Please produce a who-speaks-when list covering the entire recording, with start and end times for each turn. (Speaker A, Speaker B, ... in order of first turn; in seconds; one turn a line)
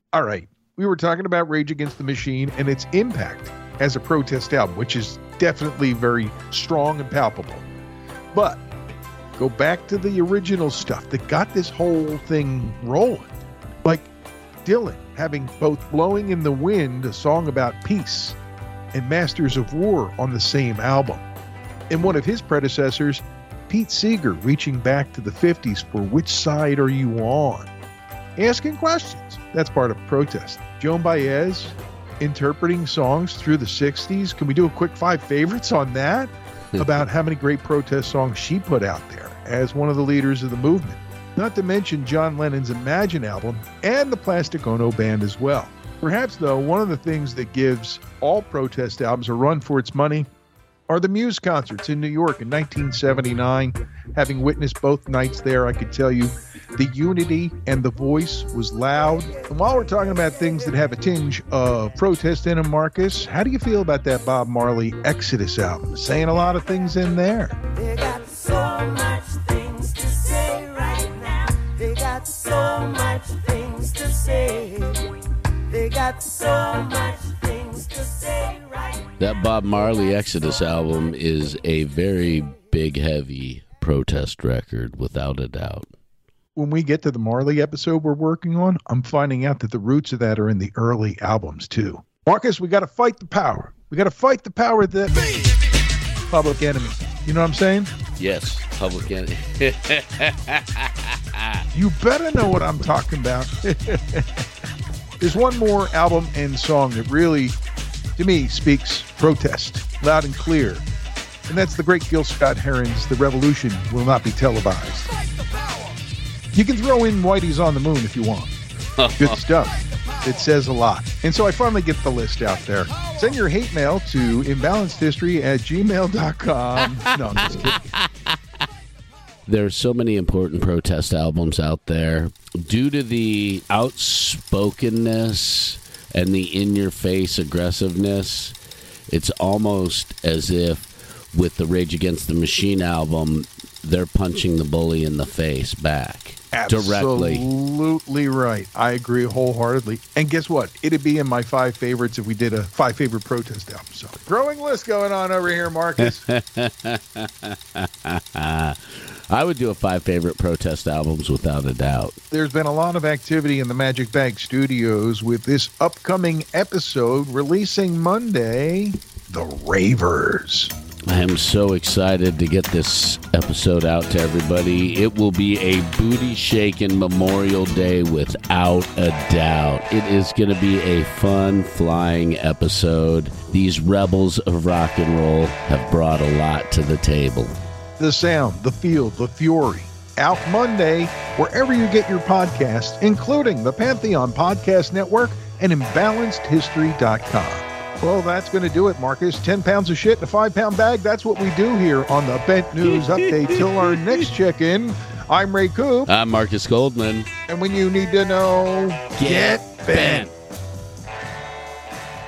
Speaker A: 0.1-7.7
Speaker A: 8.3-8.6
Speaker A: 9.4-13.3
Speaker A: 13.8-14.1
Speaker A: 14.6-18.4
Speaker A: 18.9-21.2
Speaker A: 21.9-27.7
Speaker A: 28.4-50.3
Speaker B: 36.7-37.1
Speaker A: 50.9-67.6
Speaker C: 67.8-75.1
Speaker C: 75.7-79.0
Speaker B: 79.2-85.9
Speaker A: 86.5-95.5
Speaker A: 96.3-97.9
Speaker B: 98.2-101.6
Speaker A: 101.7-104.4
Speaker A: 105.2-107.5
Speaker A: 108.2-110.8
Speaker A: 111.5-115.1
Speaker A: 116.5-118.5
Speaker B: 119.0-119.4
Speaker A: 119.2-127.8
Speaker B: 126.8-128.3
Speaker B: 129.5-138.6
Speaker B: 139.1-147.4
Speaker A: 146.5-156.2
Speaker B: 156.0-162.2
Speaker A: 162.3-170.7
Speaker B: 171.1-187.6
Speaker A: 188.0-206.1
Speaker B: 202.8-204.3
Speaker B: 206.1-207.3
Speaker A: 207.5-210.3
Speaker B: 209.1-210.3